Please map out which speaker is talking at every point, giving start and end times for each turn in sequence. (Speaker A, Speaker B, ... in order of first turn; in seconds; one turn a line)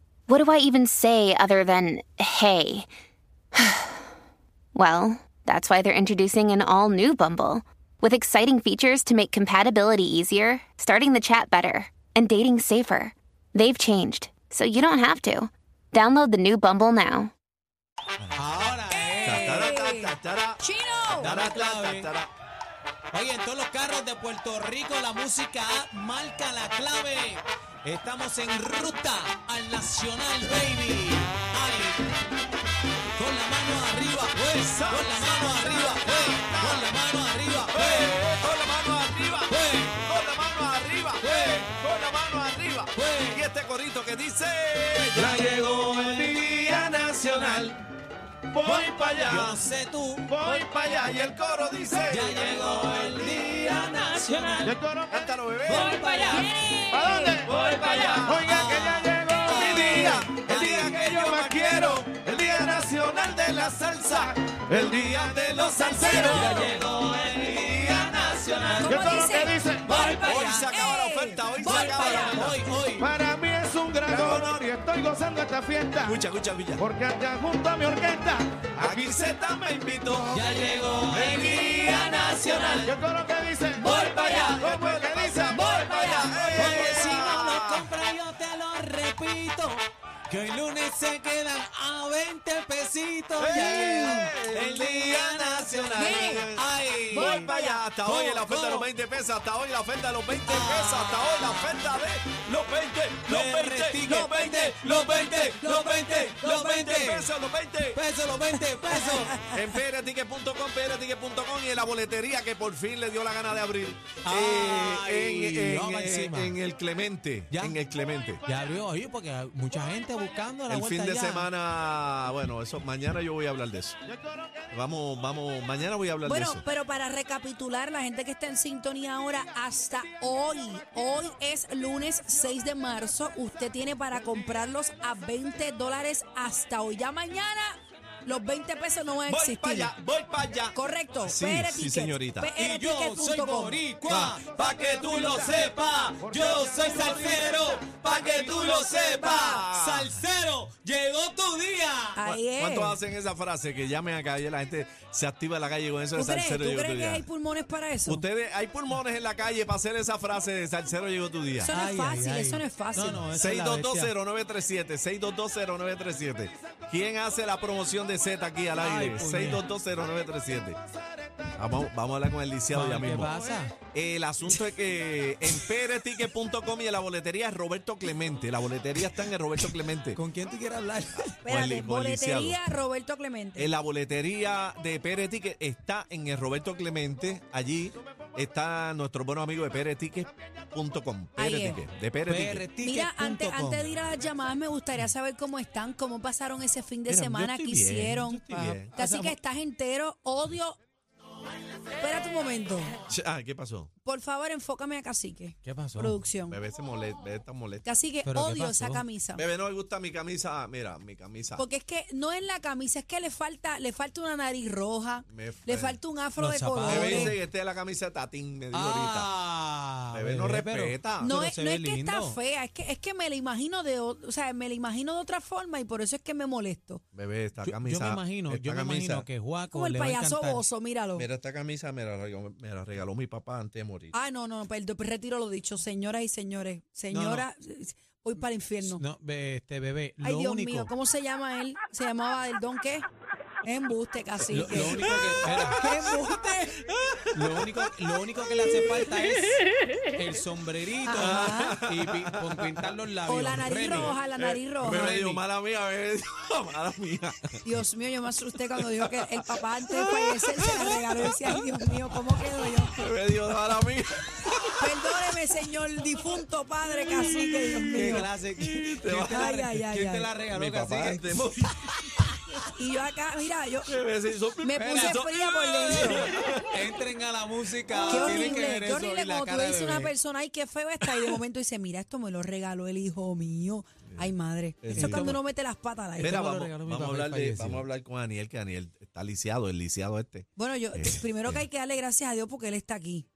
Speaker A: 0.3-2.9
Speaker A: 3.7-4.0
Speaker A: 4.8-17.3
Speaker B: 18.3-19.7
Speaker C: 18.9-21.3
Speaker D: 19.2-22.3
Speaker B: 21.1-22.1
Speaker B: 23.1-32.0
Speaker B: 33.2-38.2
Speaker D: 34.5-36.9
Speaker D: 37.7-47.8
Speaker B: 39.5-40.0
Speaker B: 41.2-41.7
Speaker B: 43.0-43.5
Speaker E: 45.2-46.3
Speaker E: 47.0-47.6
Speaker D: 48.5-49.6
Speaker E: 48.7-49.1
Speaker B: 49.3-50.3
Speaker E: 50.3-50.6
Speaker D: 50.4-53.0
Speaker B: 52.1-54.8
Speaker E: 54.6-55.3
Speaker D: 55.1-56.2
Speaker B: 55.7-56.9
Speaker C: 56.3-57.3
Speaker E: 56.9-62.9
Speaker D: 57.4-68.9
Speaker B: 58.4-60.4
Speaker E: 64.9-66.7
Speaker C: 65.8-66.5
Speaker B: 66.2-68.9
Speaker E: 68.8-70.3
Speaker C: 68.9-72.5
Speaker B: 69.9-70.7
Speaker D: 69.9-72.6
Speaker B: 71.7-73.1
Speaker E: 73.0-76.2
Speaker D: 74.0-74.8
Speaker D: 76.0-76.8
Speaker E: 76.8-79.1
Speaker D: 78.8-80.5
Speaker B: 80.3-83.0
Speaker D: 81.1-82.9
Speaker E: 82.9-84.1
Speaker C: 83.8-84.6
Speaker B: 83.8-84.6
Speaker D: 84.2-87.9
Speaker E: 84.6-85.6
Speaker C: 85.5-86.6
Speaker B: 86.6-98.9
Speaker D: 93.4-108.0
Speaker C: 96.0-96.5
Speaker C: 97.1-97.8
Speaker B: 100.4-101.6
Speaker B: 103.3-107.3
Speaker B: 107.9-109.5
Speaker C: 109.0-109.6
Speaker D: 109.2-118.4
Speaker B: 114.2-116.6
Speaker B: 117.5-117.8
Speaker B: 118.5-121.5
Speaker D: 120.7-124.0
Speaker D: 124.7-126.6
Speaker C: 126.2-139.9
Speaker D: 139.3-142.5
Speaker C: 140.7-143.8
Speaker B: 142.6-144.5
Speaker D: 144.1-150.2
Speaker E: 144.9-145.3
Speaker B: 145.3-152.2
Speaker C: 152.2-153.0
Speaker D: 152.2-157.2
Speaker C: 156.1-158.2
Speaker D: 158.1-161.7
Speaker C: 161.6-163.3
Speaker B: 161.7-164.1
Speaker D: 163.3-170.8
Speaker B: 168.8-169.6
Speaker D: 171.6-173.3
Speaker B: 172.7-173.8
Speaker D: 173.9-180.2
Speaker B: 180.1-181.4
Speaker D: 181.2-182.6
Speaker C: 181.4-183.7
Speaker D: 183.6-192.7
Speaker C: 191.4-191.8
Speaker B: 192.3-193.9
Speaker C: 192.8-200.8
Speaker D: 197.1-198.9
Speaker B: 198.5-199.4
Speaker C: 202.0-202.9
Speaker D: 203.1-203.9
Speaker C: 204.0-206.6
Speaker B: 205.6-206.2
Speaker D: 206.5-207.8
Speaker C: 207.8-209.4
Speaker B: 208.2-209.1
Speaker D: 209.4-211.6
Speaker C: 211.6-217.3
Speaker D: 215.3-216.0
Speaker B: 216.4-217.4
Speaker D: 216.8-219.3
Speaker B: 218.7-222.4
Speaker D: 220.1-221.3
Speaker C: 221.2-227.0
Speaker D: 227.1-229.3
Speaker B: 227.6-230.7
Speaker C: 229.7-231.3
Speaker D: 231.2-234.1
Speaker C: 234.1-239.0
Speaker B: 237.1-237.5
Speaker B: 238.8-240.9
Speaker C: 240.2-243.1
Speaker C: 243.6-246.8
Speaker B: 244.5-245.9
Speaker D: 244.9-245.6
Speaker B: 247.3-249.6
Speaker B: 250.1-254.1
Speaker C: 251.1-251.8
Speaker D: 251.2-252.8
Speaker C: 253.3-255.2
Speaker D: 254.0-257.7
Speaker B: 254.9-255.4
Speaker C: 257.6-263.0
Speaker D: 258.8-261.5
Speaker D: 262.9-265.0
Speaker C: 264.8-268.3
Speaker D: 267.0-269.6
Speaker B: 267.9-271.5
Speaker C: 269.3-270.3
Speaker D: 270.5-271.7
Speaker C: 272.7-274.0
Speaker D: 273.9-276.9
Speaker C: 274.6-276.3
Speaker B: 274.8-280.1
Speaker D: 277.9-278.5
Speaker C: 278.1-286.4
Speaker D: 284.8-285.4
Speaker B: 284.9-285.4
Speaker B: 286.2-287.9
Speaker D: 286.2-291.6
Speaker C: 290.6-293.3